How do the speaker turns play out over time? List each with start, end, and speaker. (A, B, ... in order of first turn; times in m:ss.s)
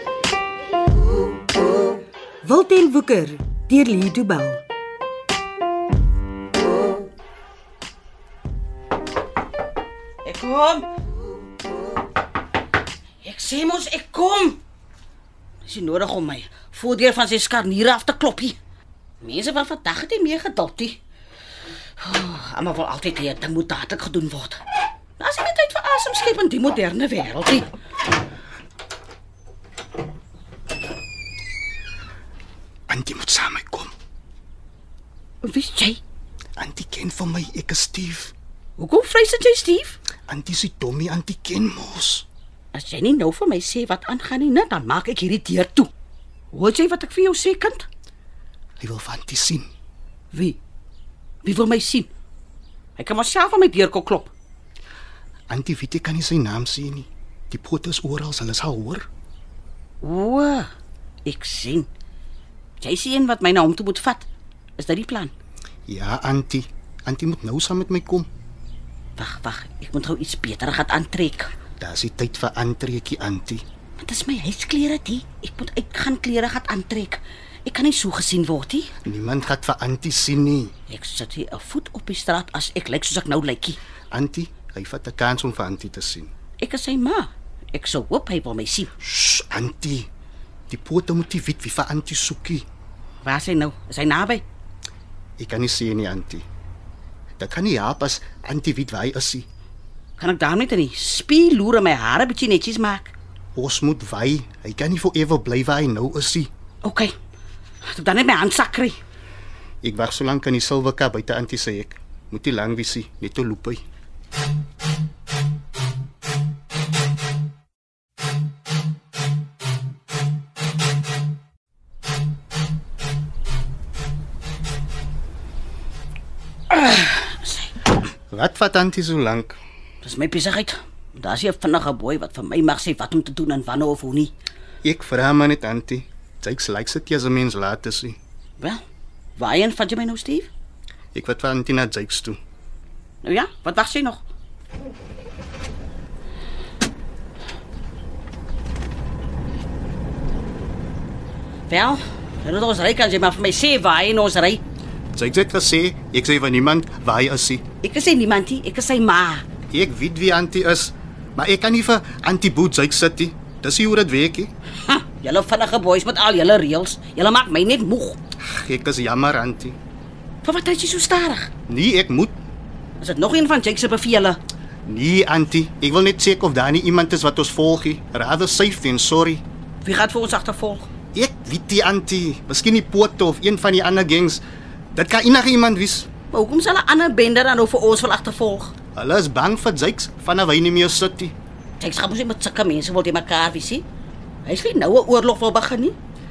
0:02.4-0:04.6 A
0:10.2-0:10.9 B
0:13.2-0:14.6 B
0:15.6-0:18.6 B
0:19.2-0:21.0 B
0:22.0-0:24.6 B
0:25.2-0:27.7 B
0:32.9-0:33.9 C
0:35.4-0:36.0 B
0:36.6-0:38.3 C
0:38.8-0:40.0 B
0:40.3-0:42.2 C
0:42.7-0:45.9 B
0:46.5-0:47.9 B
0:48.8-0:49.7 C
0:50.3-0:50.6 B
0:51.4-0:52.1 B
0:53.0-0:54.3 B
0:55.5-0:59.1 C
1:00.0-1:00.7 B
1:01.2-1:01.9 B
1:02.8-1:05.3 B
1:05.9-1:08.3 C
1:09.2-1:11.5 B
1:11.8-1:13.6 C
1:14.0-1:18.9 B
1:19.0-1:20.7 C
1:20.9-1:23.8 B
1:24.1-1:26.3 C
1:26.6-1:28.9 B
1:29.0-1:30.1 C
1:30.7-1:32.6 C
1:33.2-1:34.4 B
1:35.4-1:36.4 C
1:37.4-1:39.5 C
1:40.2-1:43.1 B
1:43.6-1:46.5 C
1:46.8-1:47.1 B
1:47.9-1:49.0 B
1:49.8-1:53.8 C
2:06.7-2:07.7 B
2:08.3-2:09.6 C
2:10.0-2:14.3 B
2:14.8-2:18.2 C
2:19.4-2:20.5 B
2:21.2-2:22.4 C
2:23.2-2:24.2 B
2:31.7-2:34.6 B
2:35.1-2:37.6 C
2:37.8-2:39.4 B
2:39.7-2:44.5 C
2:44.8-2:48.2 B
2:48.4-2:49.8 C
2:50.4-2:51.5 B
2:51.7-2:52.3 C
2:53.0-2:54.4 B
2:54.9-2:59.4 C
2:59.8-3:00.9 B
3:01.1-3:04.4 C
3:05.0-3:06.1 C
3:06.3-3:08.7 B
3:09.0-3:11.3 C
3:11.8-3:13.9 B
3:14.4-3:16.0 B